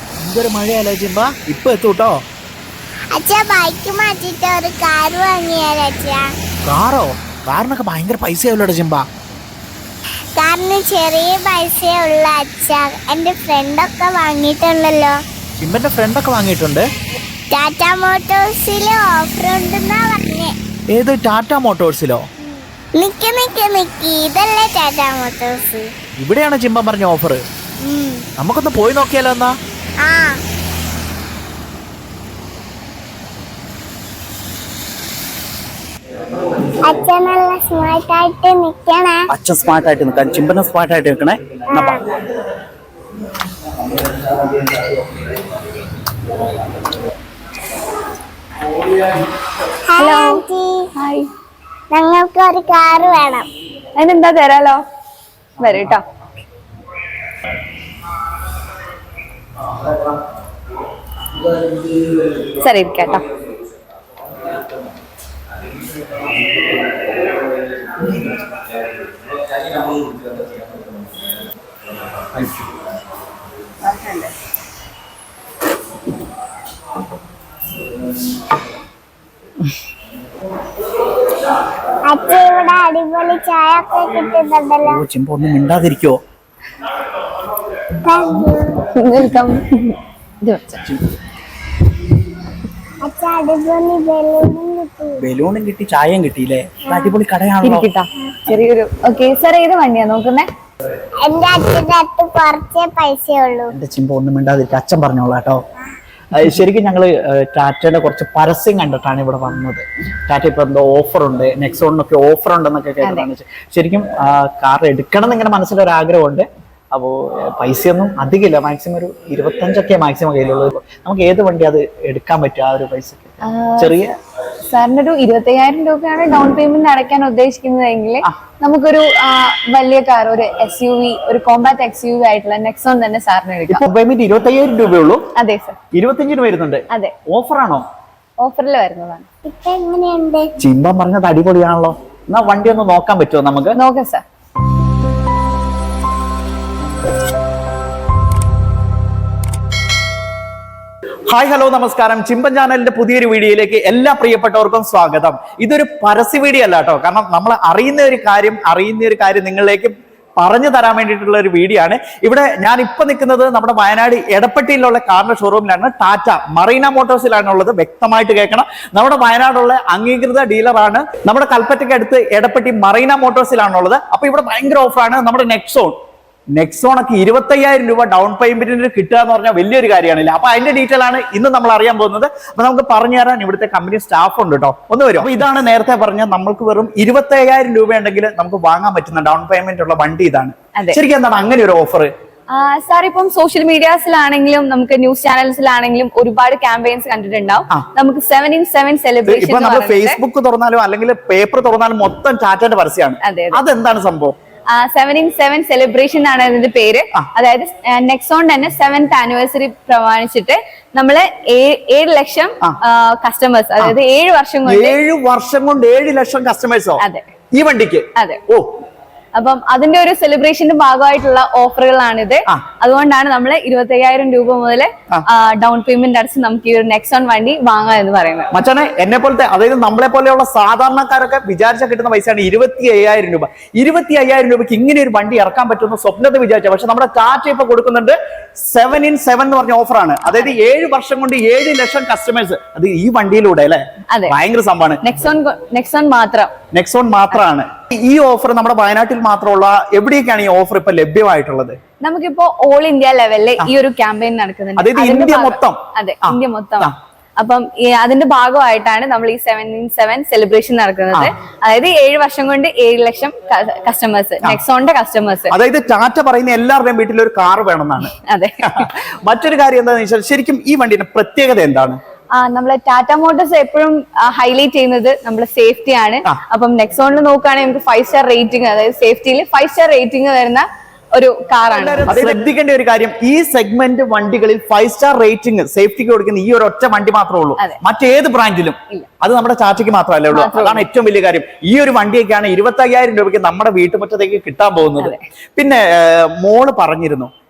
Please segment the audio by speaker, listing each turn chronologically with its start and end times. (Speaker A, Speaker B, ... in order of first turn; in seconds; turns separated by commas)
Speaker A: 0.2-2.2, Speaker B: 3.1-6.3, Speaker A: 6.7-9.1, Speaker B: 10.3-15.2, Speaker A: 15.6-16.8, Speaker B: 17.5-20.5, Speaker A: 20.9-22.2, Speaker B: 22.9-25.9, Speaker A: 26.2-27.4, Speaker B: 27.8-28.2, Speaker A: 28.4-29.5, Speaker B: 30.0-30.4, Speaker B: 36.7-39.3, Speaker A: 39.3-42.0, Speaker B: 41.7-42.1, Speaker A: 44.3-44.9, Speaker B: 49.9-50.9, Speaker C: 50.0-50.4, Speaker C: 51.0-51.3, Speaker B: 51.9-53.5, Speaker C: 54.0-54.8, Speaker C: 55.6-56.0, Speaker C: 62.5-63.2, Speaker C: 73.8-74.3, Speaker B: 82.0-85.0, Speaker A: 84.8-86.2, Speaker B: 88.0-88.8, Speaker C: 88.9-90.8, Speaker B: 93.0-95.2, Speaker A: 95.2-97.9, Speaker C: 97.6-100.5, Speaker B: 101.2-103.7, Speaker A: 103.7-105.6, Speaker A: 106.3-124.1, Speaker C: 113.0-113.3, Speaker C: 123.4-123.9, Speaker C: 124.7-133.8, Speaker A: 133.7-135.2, Speaker C: 135.3-135.8, Speaker A: 135.9-137.8, Speaker C: 138.4-139.3, Speaker B: 139.4-140.5, Speaker A: 140.6-143.8, Speaker C: 143.7-144.2, Speaker A: 151.3-175.9, Speaker A: 176.5-192.1, Speaker C: 192.5-200.2, Speaker A: 199.2-204.3, Speaker C: 203.2-203.6, Speaker C: 204.7-215.0, Speaker A: 214.7-217.0, Speaker C: 217.0-217.2, Speaker A: 217.5-218.7, Speaker C: 218.2-218.4, Speaker C: 219.3-228.5, Speaker A: 228.5-245.0, Speaker C: 240.3-240.6, Speaker C: 245.0-246.5, Speaker A: 246.7-251.8, Speaker C: 252.0-265.5, Speaker A: 254.8-256.9, Speaker A: 265.5-272.0, Speaker C: 268.1-268.9, Speaker C: 272.4-282.4, Speaker A: 281.7-297.3, Speaker C: 290.3-290.9